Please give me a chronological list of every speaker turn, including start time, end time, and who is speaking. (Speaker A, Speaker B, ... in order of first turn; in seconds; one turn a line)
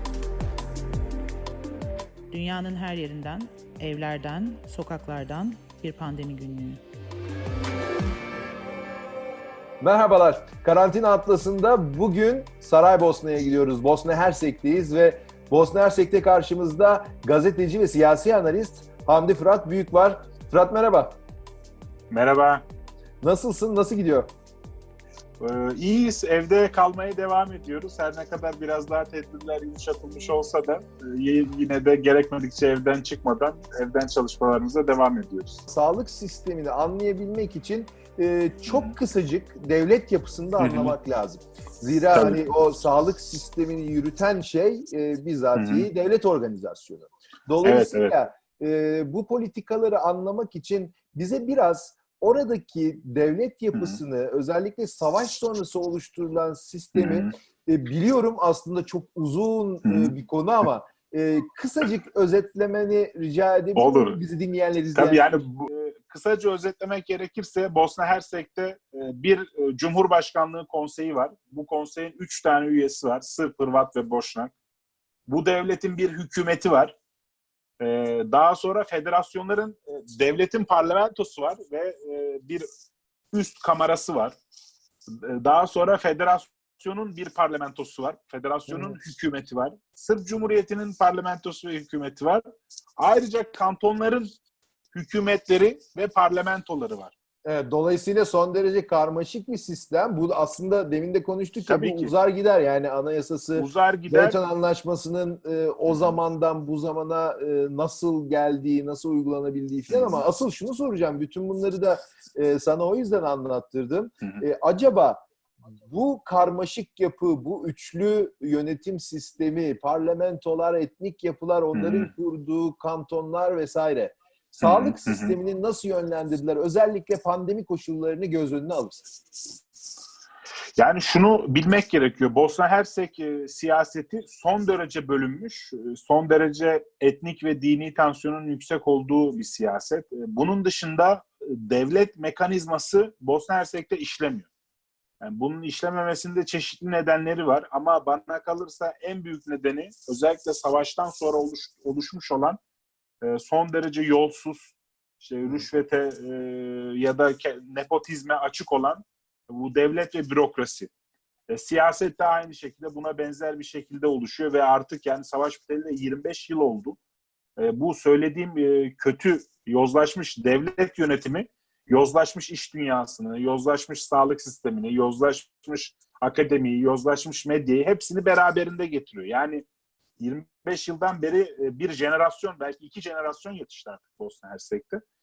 Speaker A: 2.3-6.8
Speaker B: 9.8-21.2
Speaker C: 22.1-22.7
Speaker B: 23.2-24.3
Speaker C: 25.4-35.7
Speaker B: 35.7-65.2
Speaker C: 38.6-39.0
Speaker C: 40.6-41.0
Speaker C: 42.1-42.5
Speaker C: 45.5-45.9
Speaker C: 47.6-48.1
Speaker C: 53.7-54.0
Speaker C: 56.9-57.3
Speaker C: 59.8-60.1
Speaker C: 63.8-64.2
Speaker C: 64.9-74.5
Speaker C: 75.3-77.0
Speaker C: 77.8-82.7
Speaker C: 83.3-84.4
Speaker C: 85.2-92.4
Speaker B: 88.7-89.0
Speaker C: 93.0-94.3
Speaker C: 94.9-97.1
Speaker B: 97.5-115.2
Speaker C: 101.7-102.2
Speaker C: 103.5-104.4
Speaker C: 105.9-106.2
Speaker C: 109.9-110.3
Speaker B: 115.9-129.1
Speaker C: 121.7-122.1
Speaker C: 124.6-125.4
Speaker C: 130.8-144.5
Speaker C: 145.2-152.6
Speaker C: 153.2-160.9
Speaker C: 161.5-167.0
Speaker C: 167.6-179.7
Speaker C: 180.2-185.0